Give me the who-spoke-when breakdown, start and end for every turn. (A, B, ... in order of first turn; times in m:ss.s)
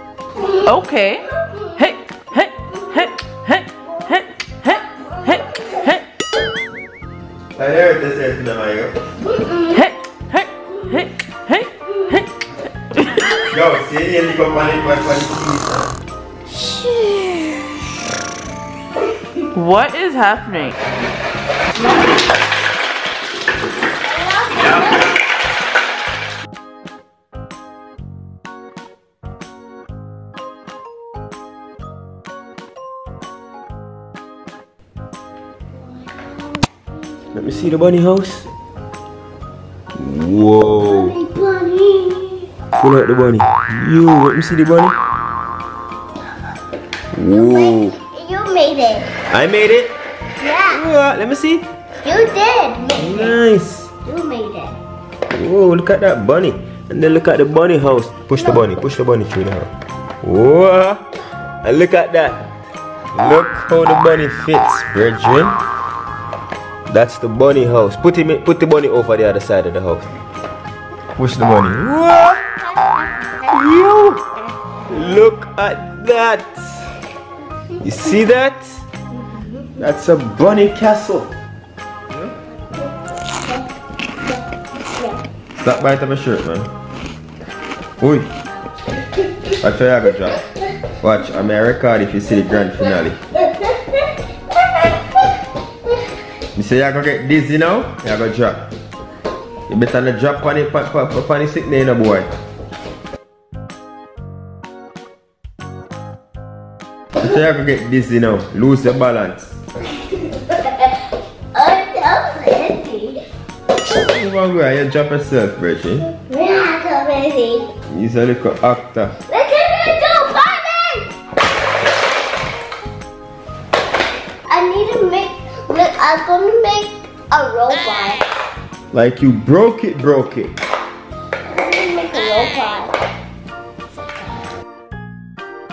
0:00.3-0:00.7 A
0:00.6-0:01.2 B
0:01.3-0:01.9 A
0:01.8-0:06.0 B
0:02.7-0:03.0 A
0:03.9-0:04.1 A
0:05.0-0:05.8 A
0:07.5-0:09.0 C
0:09.2-0:09.8 A
0:09.7-0:12.3 B
0:12.9-0:13.5 B
0:13.5-0:15.9 C
0:16.5-0:17.5 A
0:19.5-0:20.8 B
0:24.1-0:25.1 A
0:35.9-0:37.5 A
0:37.3-0:38.5 C
0:40.0-0:41.1 C
0:40.8-0:42.5 A
0:42.8-0:45.0 C
0:47.1-0:47.9 C
0:47.3-0:49.1 A
0:49.3-0:49.9 C
0:50.4-0:50.8 A
0:50.7-0:51.6 C
0:52.0-0:53.4 A
0:53.0-0:53.9 C
0:54.0-0:54.8 A
0:55.3-0:59.7 C
0:58.4-0:58.6 A
1:00.2-1:01.0 C
1:01.6-1:02.4 C
1:03.1-1:05.6 C
1:06.9-1:10.1 C
1:11.2-1:12.4 C
1:12.6-1:13.6 A
1:13.5-1:14.2 C
1:14.9-1:16.8 C
1:17.8-1:18.8 C
1:19.2-1:19.7 A
1:19.8-1:21.3 C
1:23.3-1:23.7 A
1:24.3-1:25.2 A
1:25.6-1:26.7 C
1:28.0-1:28.3 C
1:29.5-1:30.4 C
1:31.0-1:33.2 C
1:33.4-1:34.0 A
1:36.5-1:38.6 C
1:39.7-1:42.3 C
1:47.2-1:49.5 C
1:50.1-1:51.0 A
1:51.5-1:53.2 A
1:54.0-1:56.1 C
1:56.2-1:57.7 A
1:57.8-1:59.1 C
1:59.3-2:01.1 A
2:04.5-2:08.3 A
2:08.9-2:10.5 C
2:11.5-2:12.9 A